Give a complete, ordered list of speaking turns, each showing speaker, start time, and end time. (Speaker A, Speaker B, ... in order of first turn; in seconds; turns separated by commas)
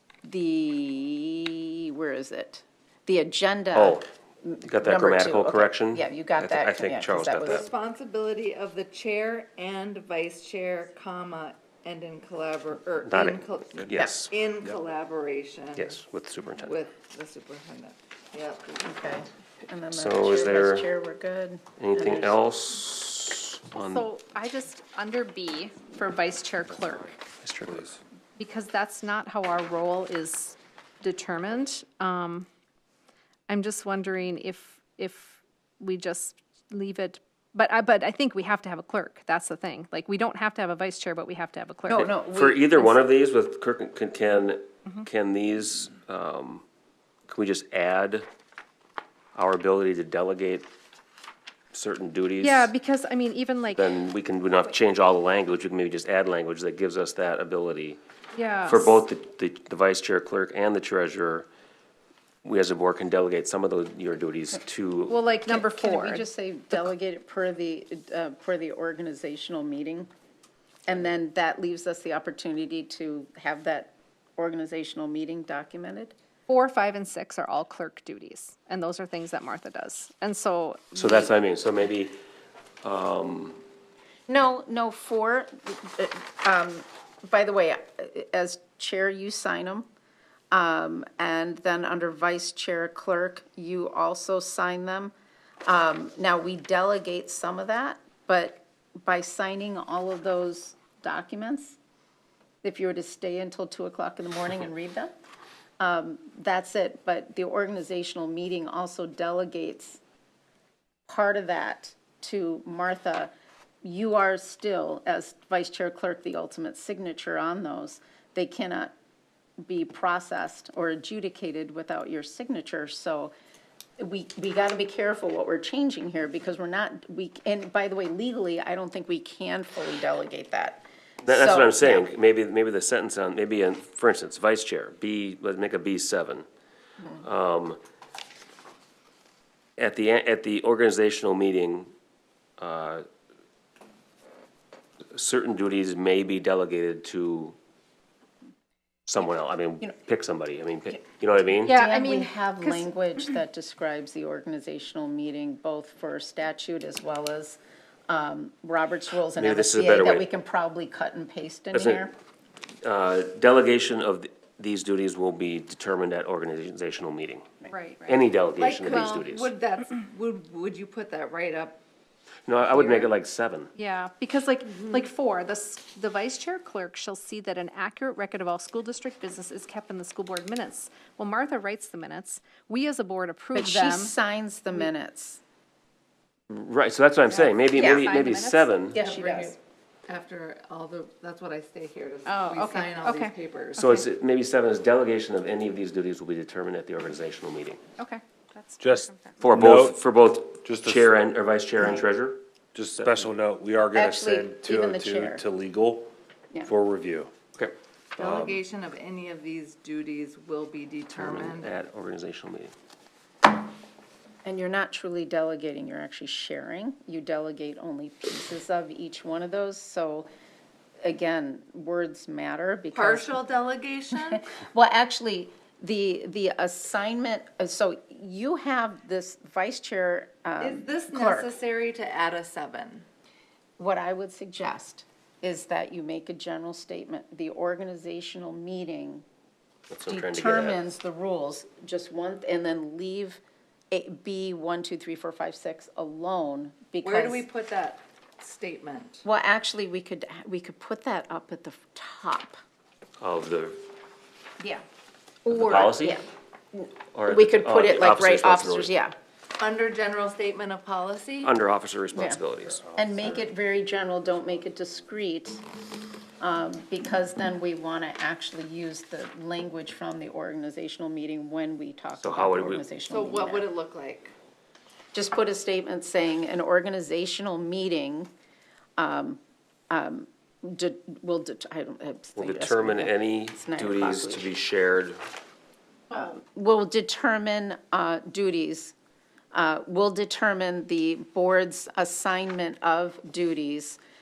Speaker A: 0.2-7.7, Speaker B: 3.8-4.0, Speaker B: 4.6-7.7, Speaker C: 7.5-16.0, Speaker B: 13.1-14.3, Speaker B: 15.8-16.8, Speaker C: 16.6-19.0, Speaker A: 18.8-22.4, Speaker B: 19.9-20.9, Speaker B: 21.8-24.1, Speaker D: 23.8-27.2, Speaker B: 27.4-27.9, Speaker E: 27.7-28.0, Speaker D: 28.4-32.5, Speaker D: 33.5-42.1, Speaker A: 41.9-43.0, Speaker B: 42.0-46.6, Speaker B: 47.3-48.3, Speaker B: 49.4-50.7, Speaker B: 51.7-52.7, Speaker D: 52.4-53.9, Speaker B: 53.7-58.0, Speaker D: 58.3-59.0, Speaker B: 58.7-61.5, Speaker B: 62.4-65.2, Speaker D: 65.1-66.9, Speaker A: 65.5-70.1, Speaker A: 70.9-76.2, Speaker D: 76.5-81.3, Speaker B: 81.0-82.2, Speaker B: 82.8-83.6, Speaker A: 84.3-89.9, Speaker A: 90.5-95.1, Speaker A: 95.7-101.8, Speaker A: 102.6-105.1, Speaker A: 105.8-110.0, Speaker A: 111.1-113.3, Speaker A: 113.8-118.9, Speaker A: 119.7-123.3, Speaker A: 124.0-132.1, Speaker B: 131.2-136.5, Speaker B: 137.2-137.8, Speaker B: 139.8-141.9, Speaker B: 142.6-143.1, Speaker B: 145.1-147.6, Speaker B: 149.1-151.8, Speaker D: 151.7-152.9, Speaker A: 151.7-157.6, Speaker A: 158.1-162.1, Speaker B: 159.4-160.3, Speaker B: 161.7-162.1, Speaker B: 162.8-167.5, Speaker D: 167.7-168.2, Speaker B: 168.1-169.5, Speaker C: 168.6-171.8, Speaker B: 172.5-173.7, Speaker D: 173.8-184.2, Speaker A: 183.6-185.4, Speaker B: 186.5-189.0, Speaker D: 187.3-189.3, Speaker A: 187.7-188.1, Speaker A: 188.9-189.6, Speaker C: 189.0-194.0, Speaker D: 192.2-194.0, Speaker B: 193.8-197.8, Speaker D: 198.0-199.4, Speaker E: 198.8-200.0, Speaker B: 199.4-202.4, Speaker E: 200.6-201.2, Speaker E: 202.8-206.1, Speaker B: 203.0-203.3, Speaker A: 203.9-205.4, Speaker E: 206.7-207.3, Speaker C: 208.2-211.7, Speaker E: 208.2-208.6, Speaker B: 211.1-212.7, Speaker A: 214.4-220.3, Speaker A: 221.0-223.3, Speaker C: 222.9-224.4, Speaker A: 224.2-231.5, Speaker C: 230.6-233.1, Speaker A: 233.8-239.2, Speaker B: 239.9-240.9, Speaker A: 240.1-247.4, Speaker C: 247.0-249.2, Speaker A: 249.2-252.6, Speaker B: 253.2-253.8, Speaker A: 255.4-259.1, Speaker B: 255.5-256.2, Speaker B: 257.1-258.9, Speaker C: 259.6-261.6, Speaker B: 261.4-262.9, Speaker A: 262.1-262.4, Speaker A: 262.9-265.6, Speaker E: 262.9-263.5, Speaker A: 266.4-273.7, Speaker B: 272.2-272.9, Speaker C: 273.1-274.3, Speaker A: 275.1-278.3, Speaker A: 279.0-284.5, Speaker B: 282.4-285.2, Speaker A: 286.1-288.9, Speaker A: 289.5-294.0